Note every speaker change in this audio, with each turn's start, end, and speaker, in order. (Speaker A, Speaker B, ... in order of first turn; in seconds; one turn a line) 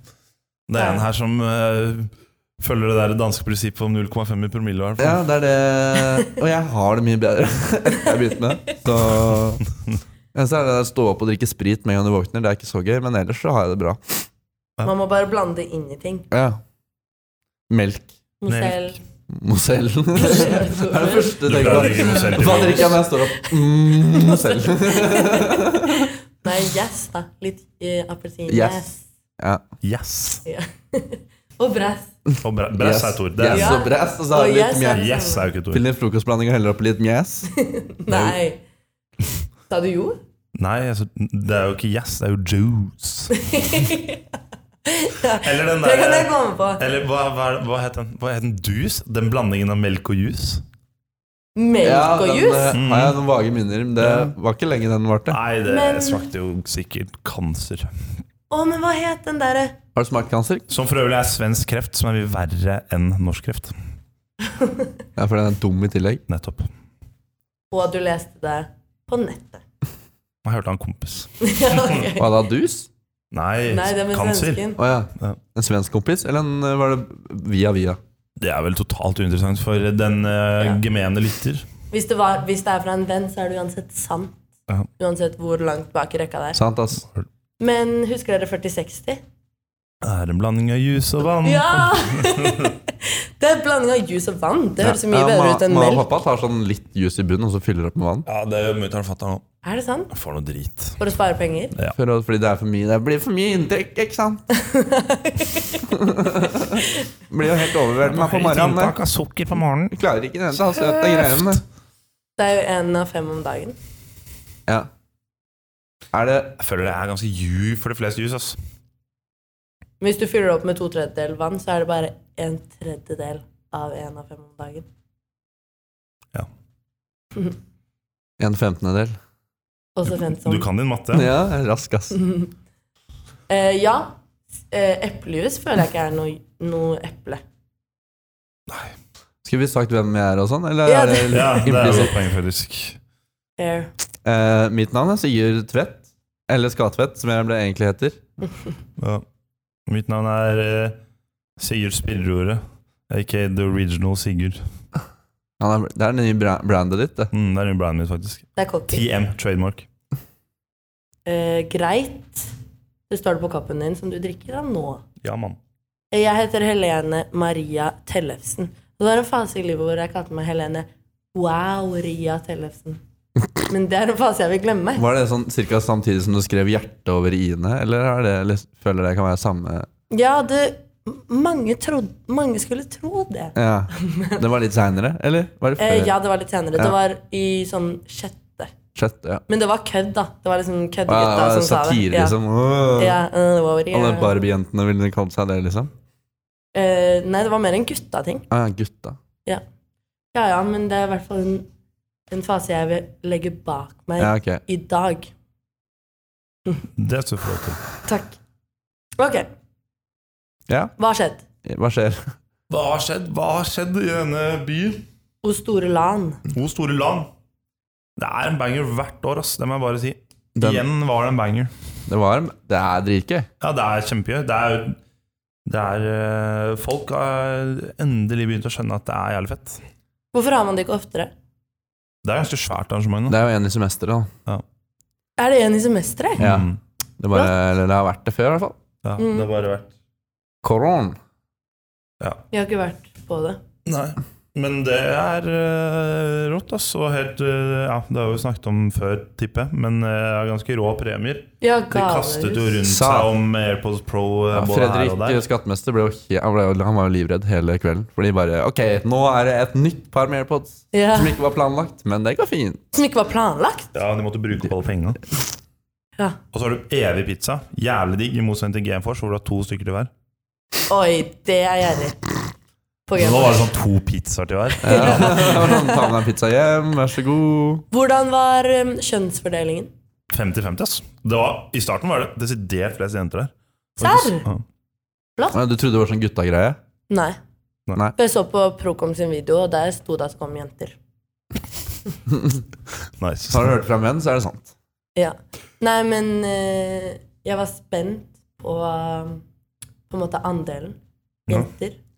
Speaker A: 0.7-5.2
Speaker B: 0.8-1.1
Speaker C: 5.0-9.7
Speaker C: 10.3-14.2
Speaker B: 14.8-16.2
Speaker C: 16.3-16.6
Speaker C: 17.7-18.1
Speaker B: 18.4-19.0
Speaker A: 18.5-18.8
Speaker C: 19.3-26.1
Speaker B: 20.2-22.3
Speaker A: 21.4-23.0
Speaker B: 23.4-29.0
Speaker C: 28.5-28.9
Speaker A: 29.8-30.4
Speaker B: 30.4-32.1
Speaker C: 32.3-35.1
Speaker A: 32.4-33.8
Speaker B: 33.5-35.5
Speaker A: 34.9-35.9
Speaker C: 35.7-37.5
Speaker B: 37.5-38.6
Speaker B: 39.7-40.2
Speaker A: 40.5-43.3
Speaker B: 43.3-44.2
Speaker B: 44.9-46.8
Speaker A: 45.3-50.6
Speaker B: 51.6-52.8
Speaker C: 51.8-55.4
Speaker A: 52.7-53.2
Speaker A: 54.0-54.3
Speaker A: 55.3-57.9
Speaker B: 55.7-56.2
Speaker B: 58.5-59.8
Speaker C: 60.0-60.6
Speaker A: 60.7-63.8
Speaker B: 64.5-64.9
Speaker C: 65.2-66.2
Speaker A: 66.3-66.7
Speaker B: 67.7-69.6
Speaker A: 70.4-72.0
Speaker B: 71.4-72.3
Speaker C: 72.2-72.9
Speaker A: 73.3-74.6
Speaker B: 73.7-74.8
Speaker C: 74.8-78.0
Speaker A: 78.4-81.7
Speaker B: 81.9-84.4
Speaker B: 85.0-86.6
Speaker C: 86.5-87.0
Speaker B: 87.6-89.2
Speaker A: 90.0-92.8
Speaker B: 91.4-96.1
Speaker C: 95.0-98.3
Speaker A: 98.3-99.4
Speaker B: 99.6-100.1
Speaker A: 100.1-101.0
Speaker B: 101.0-101.8
Speaker C: 102.0-104.4
Speaker B: 104.5-106.0
Speaker C: 105.9-109.0
Speaker A: 108.1-110.0
Speaker C: 109.9-111.6
Speaker A: 110.6-111.6
Speaker B: 112.4-113.8
Speaker C: 116.1-116.5
Speaker A: 116.6-118.6
Speaker B: 120.0-124.9
Speaker C: 128.4-129.2
Speaker B: 130.0-130.7
Speaker A: 130.1-131.3
Speaker C: 131.1-132.2
Speaker B: 132.1-132.5
Speaker B: 133.5-134.2
Speaker B: 134.7-137.4
Speaker A: 138.7-138.9
Speaker C: 139.4-142.2
Speaker B: 140.8-141.7
Speaker A: 141.3-143.0
Speaker B: 143.6-143.9
Speaker C: 144.2-148.2
Speaker A: 149.0-149.2
Speaker A: 149.9-151.0
Speaker A: 151.6-154.6
Speaker C: 155.6-157.3
Speaker A: 157.3-159.9
Speaker B: 158.6-159.1
Speaker B: 161.3-162.5
Speaker B: 163.1-165.0
Speaker A: 165.2-165.6
Speaker B: 166.1-173.0
Speaker B: 173.7-175.1
Speaker C: 175.0-179.9
Speaker B: 180.1-184.4
Speaker C: 183.6-186.1
Speaker B: 185.8-188.7
Speaker C: 189.0-189.4
Speaker B: 189.5-192.3
Speaker C: 191.1-193.2
Speaker B: 193.0-194.4
Speaker C: 193.9-195.9
Speaker B: 196.7-198.4
Speaker C: 198.5-199.2
Speaker B: 200.3-201.7
Speaker B: 202.3-205.3
Speaker C: 204.2-204.6
Speaker A: 207.0-207.8
Speaker B: 208.0-208.4
Speaker B: 209.2-209.5
Speaker B: 211.0-211.4
Speaker C: 211.6-212.3
Speaker A: 212.7-215.1
Speaker B: 215.4-216.4
Speaker A: 216.5-217.3
Speaker A: 218.2-221.7
Speaker C: 220.6-220.8
Speaker C: 222.1-223.5
Speaker A: 223.6-225.0
Speaker A: 225.7-229.8
Speaker B: 230.3-231.3
Speaker A: 232.2-233.4
Speaker C: 233.3-234.3
Speaker B: 235.4-236.4
Speaker A: 236.4-236.8
Speaker C: 236.4-238.8
Speaker A: 239.0-239.9
Speaker B: 239.2-239.5
Speaker C: 240.6-241.2
Speaker B: 242.5-243.6
Speaker A: 243.8-255.4
Speaker B: 251.6-252.8
Speaker C: 252.8-253.3
Speaker C: 254.5-262.8
Speaker B: 260.9-261.4
Speaker B: 262.9-263.9
Speaker A: 263.9-265.2
Speaker A: 266.5-270.1
Speaker B: 270.9-272.2
Speaker B: 273.1-273.6
Speaker A: 273.2-275.7
Speaker C: 274.8-277.8
Speaker B: 274.8-276.1
Speaker B: 277.9-279.9
Speaker A: 280.3-284.6
Speaker B: 284.0-284.5
Speaker C: 285.5-286.8
Speaker B: 287.1-287.4
Speaker B: 288.1-291.0
Speaker A: 293.2-293.8
Speaker C: 293.5-294.7
Speaker B: 295.2-299.4
Speaker B: 300.1-302.0